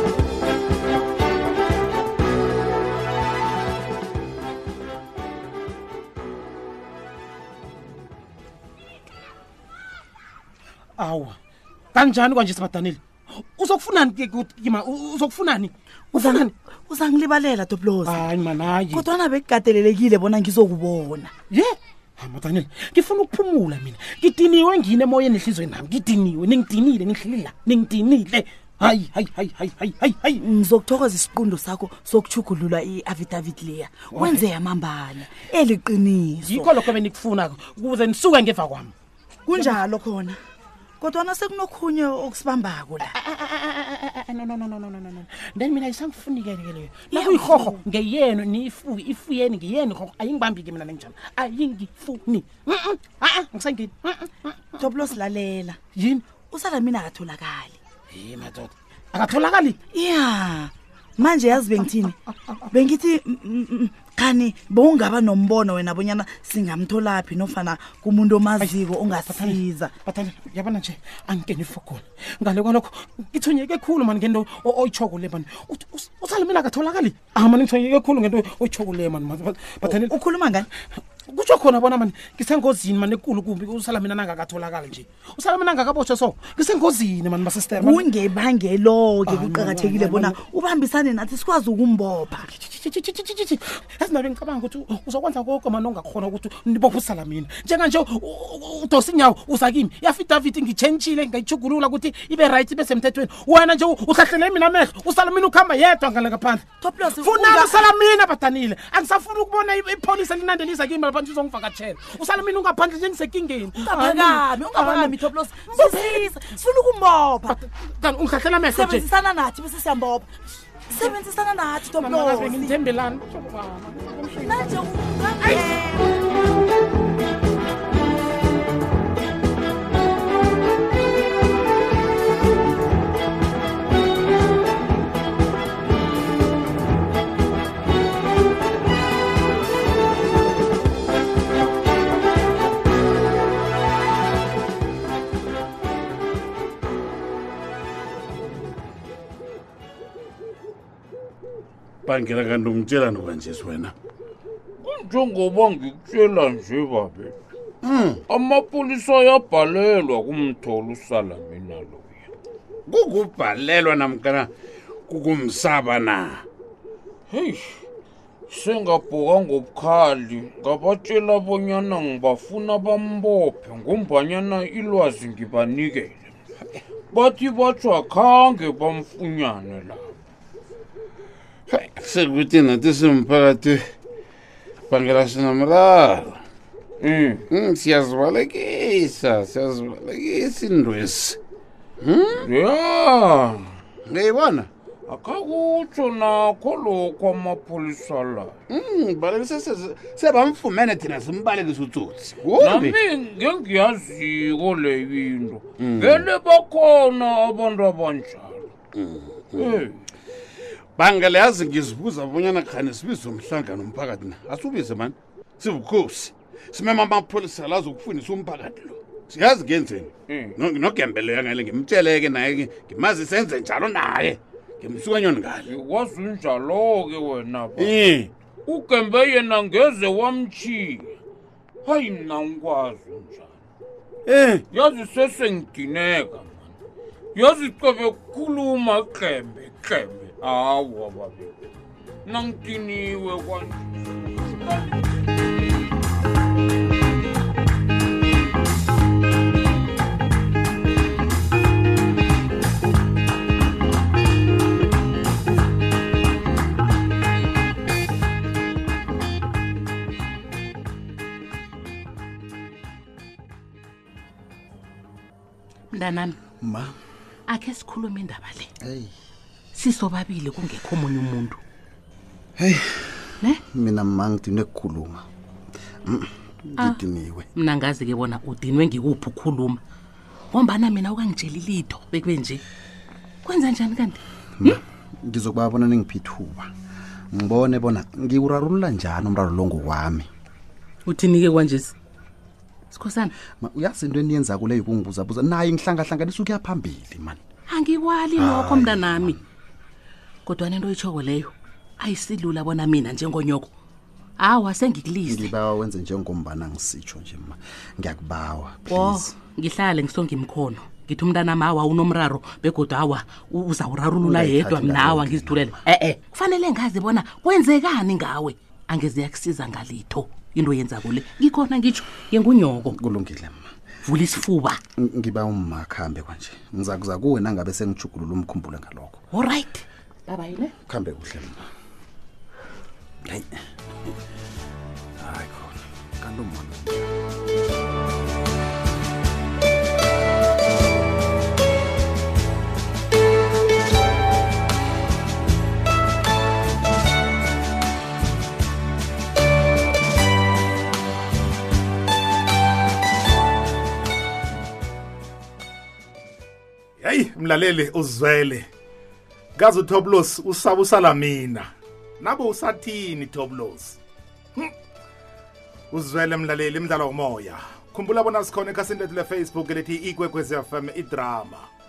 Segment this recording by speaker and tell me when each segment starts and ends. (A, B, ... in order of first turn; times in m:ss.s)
0:11.0-0:11.4 A
0:11.9-0:16.5 A
0:16.1-0:18.3 B
0:18.0-0:19.0 A
0:18.9-0:21.3 B
0:21.5-0:30.4 A
0:30.4-0:36.7 B
0:34.1-0:34.4 A
0:36.4-0:38.9 A
0:39.5-0:40.4 B
0:41.0-0:43.2 B
0:43.2-0:54.8 A
0:47.1-0:47.8 B
0:54.8-0:55.8 B
0:56.0-0:56.2 A
0:56.5-0:57.8 B
0:58.1-0:59.8 A
0:59.9-1:02.2 B
1:02.3-1:02.6 A
1:02.7-1:09.9 B
1:08.6-1:20.1 A
1:19.8-1:20.7 B
1:21.3-1:28.1 A
1:27.8-1:32.5 B
1:29.2-1:30.4 A
1:32.5-1:56.3 A
1:46.8-1:47.8 B
1:53.8-1:57.6 B
1:57.5-1:59.0 A
1:58.7-2:02.8 B
2:01.9-2:04.9 A
2:04.4-2:06.2 B
2:32.1-2:34.0 C
2:34.8-2:37.4 D
2:37.8-2:38.2 C
2:38.3-2:42.2 D
2:42.9-2:44.5 C
2:45.1-2:46.4 C
2:47.3-2:47.8 D
2:48.5-2:56.3 D
2:57.1-3:00.2 D
3:01.7-3:03.8 C
3:04.9-3:06.4 C
3:07.0-3:07.4 D
3:07.5-3:11.4 C
3:12.0-3:12.5 C
3:12.4-3:13.7 D
3:14.1-3:14.7 C
3:15.1-3:18.6 D
3:18.7-3:23.0 C
3:22.6-3:28.7 D
3:25.8-3:26.3 C
3:28.9-3:29.8 C
3:29.6-3:30.0 D
3:31.0-3:45.7 C
3:40.3-3:40.6 D
3:45.6-3:48.1 D
3:47.8-3:48.3 C
3:48.7-3:51.2 D
3:51.8-3:53.5 D
3:54.3-3:54.6 C
3:54.7-3:56.8 D
3:57.4-4:01.5 D
4:02.2-4:05.1 D
4:25.9-4:26.4 E
4:26.6-4:26.9 F
4:27.5-4:28.7 E
4:28.8-4:29.1 F
4:29.8-4:31.6 E
4:32.6-4:32.9 F
4:33.7-4:35.2 F
4:36.1-4:37.5 F
4:37.6-4:39.8 E
4:40.5-4:42.6 E
4:43.4-4:44.8 E
4:44.6-4:46.7 F
4:47.3-4:50.3 F
4:51.1-4:51.9 E
4:52.9-4:53.3 E
4:53.6-4:57.4 F
4:57.7-4:59.4 E
4:58.4-4:59.4 F
5:00.5-5:03.7 E
5:04.4-5:05.5 E
5:05.2-5:09.4 F
5:08.9-5:23.0 E
5:14.2-5:15.7 F
5:22.9-5:23.6 F
5:24.0-5:24.8 E
5:25.0-5:29.2 F
5:29.3-5:30.7 E
5:30.9-5:31.6 F
5:35.2-5:37.1 F
5:57.0-5:58.7 G
5:59.6-6:04.0 G
6:05.9-6:11.7 G